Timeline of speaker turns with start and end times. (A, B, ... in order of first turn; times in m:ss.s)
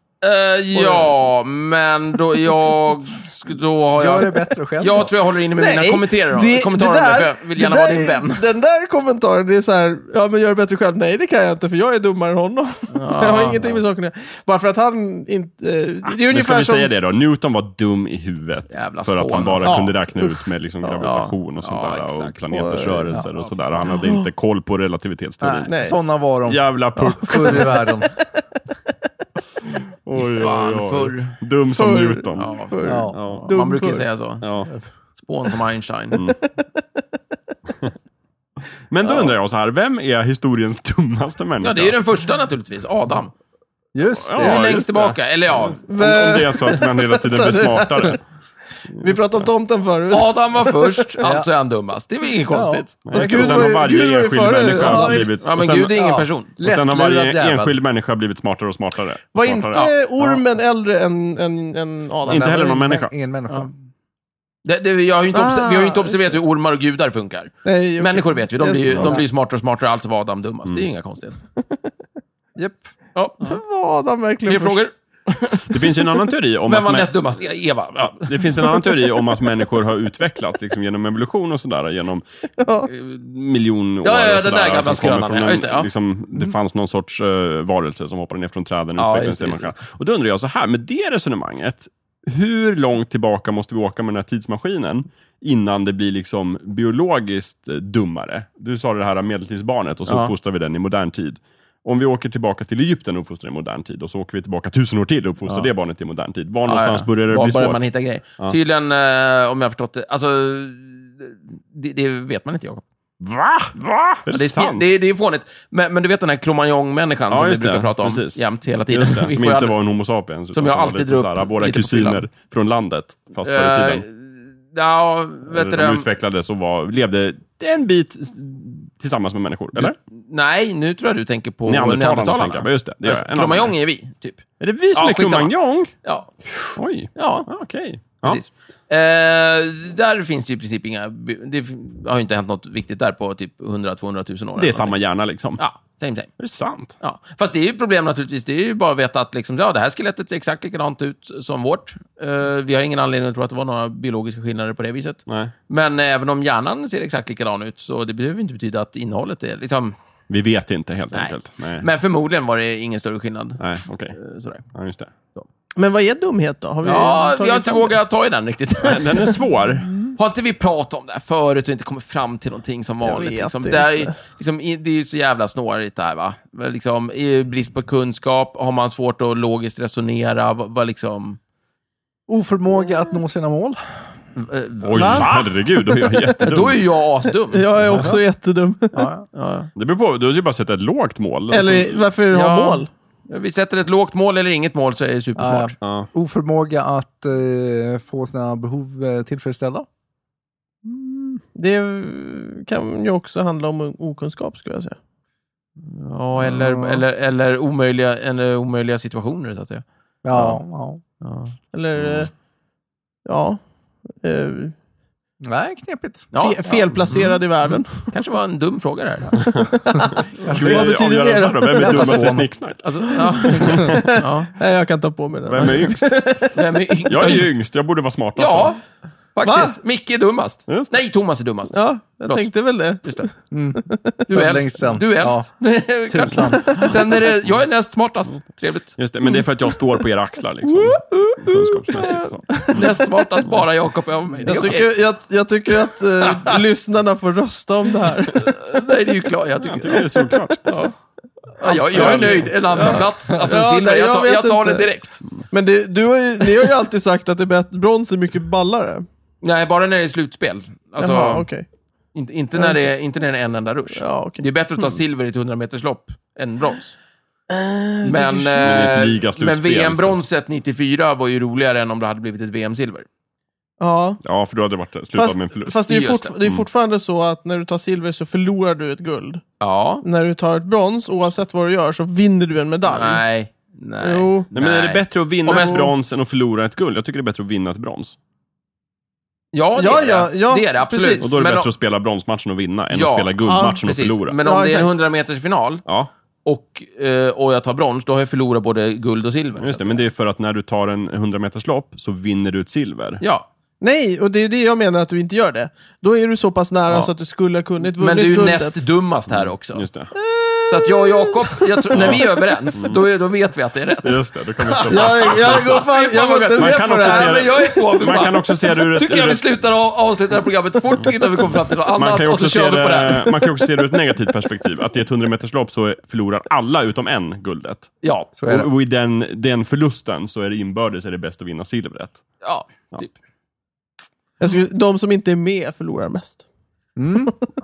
0:00.2-0:08.4 A
0:00.7-0:01.1 B
0:04.0-0:05.1 C
0:05.6-0:16.9 B
0:12.9-0:13.8 A
0:16.1-0:25.9 D
0:18.7-0:19.9 A
0:19.6-0:20.4 B
0:21.0-0:22.6 A
0:22.5-0:23.1 B
0:23.2-0:23.9 A
0:23.8-0:24.3 B
0:25.4-0:28.1 C
0:25.7-0:26.0 B
0:26.5-0:27.7 D
0:27.3-0:27.8 B
0:30.0-0:33.5 D
0:30.2-0:31.4 A
0:31.7-0:34.0 B
0:32.3-0:34.6 A
0:32.8-0:33.2 C
0:34.4-0:34.7 D
0:35.2-0:36.2 A
0:38.9-0:42.0 D
0:41.6-0:43.3 A
0:43.9-0:44.8 C
0:44.2-0:48.2 D
0:44.4-0:45.8 A
0:45.9-0:48.2 B
0:49.0-0:51.1 B
0:50.1-0:53.1 A
0:51.2-0:51.5 C
0:52.5-0:53.8 C
0:53.0-0:56.0 D
0:53.1-0:55.3 B
0:54.8-0:55.4 C
0:55.4-0:56.5 A
0:55.9-0:57.8 C
0:56.6-0:59.9 D
0:59.3-1:02.5 B
1:02.2-1:03.1 D
1:02.3-1:03.7 C
1:04.6-1:11.4 A
1:05.3-1:06.4 B
1:07.6-1:09.2 B
1:12.6-1:12.9 C
1:13.1-1:13.6 A
1:13.4-1:14.8 B
1:14.4-1:16.1 A
1:15.7-1:17.1 D
1:16.6-1:18.9 A
1:18.0-1:22.2 D
1:22.6-1:22.9 B
1:22.8-1:47.8 D
1:24.0-1:25.9 A
1:29.0-1:29.8 A
1:40.1-1:40.3 A
1:46.6-1:52.8 A
1:53.2-1:54.8 D
1:54.3-1:59.8 A
1:57.3-2:04.0 D
2:00.5-2:02.2 A
2:03.4-2:06.0 A
2:05.5-2:10.0 D
2:09.8-2:15.5 A
2:11.7-2:13.7 D
2:14.6-2:15.9 D
2:16.0-2:17.5 A
2:16.8-2:18.4 D
2:18.2-2:25.0 A
2:24.6-2:25.6 D
2:25.6-2:26.3 A
2:26.4-2:26.9 D
2:27.0-2:39.9 A
2:40.3-2:41.8 D
2:41.1-2:44.6 A
2:43.6-2:44.2 D
2:44.7-2:45.1 D
2:45.8-2:48.0 B
2:46.8-2:49.4 A
2:48.8-2:49.9 D
2:50.2-3:01.4 A
2:53.0-2:54.1 B
3:02.3-3:03.8 C
3:04.4-3:05.4 A
3:04.8-3:06.8 D
3:04.9-3:06.3 B
3:06.4-3:08.0 A
3:07.5-3:09.0 B
3:07.9-3:08.2 C
3:08.9-3:09.2 C
3:09.0-3:09.7 A
3:09.7-3:12.0 D
3:11.5-3:12.9 B
3:12.3-3:15.8 A
3:15.4-3:19.8 C
3:15.8-3:16.1 D
3:21.5-3:25.0 B
3:25.8-3:30.6 A
3:26.5-3:26.8 B
3:30.2-3:31.0 C
3:31.2-3:31.5 A
3:31.7-3:32.3 B
3:31.9-3:32.3 D
3:33.2-3:33.6 B
3:34.2-3:34.7 B
3:35.4-3:36.3 C
3:36.3-3:39.5 A
3:36.4-3:38.1 B
3:39.9-3:42.3 B
3:40.4-3:41.0 C
3:40.5-3:44.1 D
3:41.7-3:42.5 C
3:42.8-3:44.5 A
3:43.1-3:46.6 B
3:45.5-3:46.5 D
3:45.6-3:45.9 A
3:46.5-3:47.5 A
3:47.0-3:48.8 D
3:48.4-3:48.8 A
3:49.3-3:53.3 A
3:49.4-3:49.7 B
3:51.7-3:53.3 B
3:53.5-3:55.5 C
3:54.3-3:59.0 A
3:56.1-3:56.9 C
3:59.0-4:03.0 D
4:00.9-4:03.1 B
4:02.7-4:05.0 A
4:04.4-4:04.7 C
4:04.4-4:08.6 B
4:06.2-4:06.6 A
4:08.0-4:10.1 A
4:09.6-4:10.7 D
4:10.6-4:10.9 A
4:11.6-4:15.2 A
4:11.6-4:14.9 B
4:11.9-4:12.5 D
4:12.9-4:13.5 C
4:15.5-4:19.0 B
4:19.4-4:21.5 A
4:21.0-4:21.6 B
4:22.1-4:27.0 A
4:23.9-4:24.4 B
4:27.5-4:29.0 B
4:28.0-4:33.0 A
4:28.6-4:30.2 D
4:33.8-4:34.2 B
4:34.2-4:35.9 D
4:35.1-4:39.4 B
4:35.9-4:36.3 A
4:39.6-4:40.0 A
4:40.0-4:43.2 B
4:42.8-4:45.9 A
4:44.0-4:44.5 B
4:44.5-4:48.2 D
4:45.5-4:45.9 B
4:49.5-4:51.7 A
4:49.8-4:51.3 B
4:51.2-4:54.4 D
4:52.9-4:55.8 A
4:53.4-4:53.8 B
4:54.4-4:54.9 B
4:55.8-4:56.1 D
4:56.4-5:00.0 A
4:59.6-5:03.2 D
5:03.2-5:03.5 A
5:03.8-5:08.8 B
5:07.8-5:09.9 A
5:09.3-5:10.1 D
5:10.2-5:12.3 B
5:10.7-5:23.7 A
5:11.9-5:13.0 D
5:14.0-5:15.8 D
5:14.9-5:17.9 B
5:16.6-5:19.4 D
5:21.9-5:32.2 D
5:28.0-5:28.3 A
5:28.4-5:28.7 C
5:32.4-5:33.1 A
5:34.4-5:36.4 B
5:37.0-5:37.3 C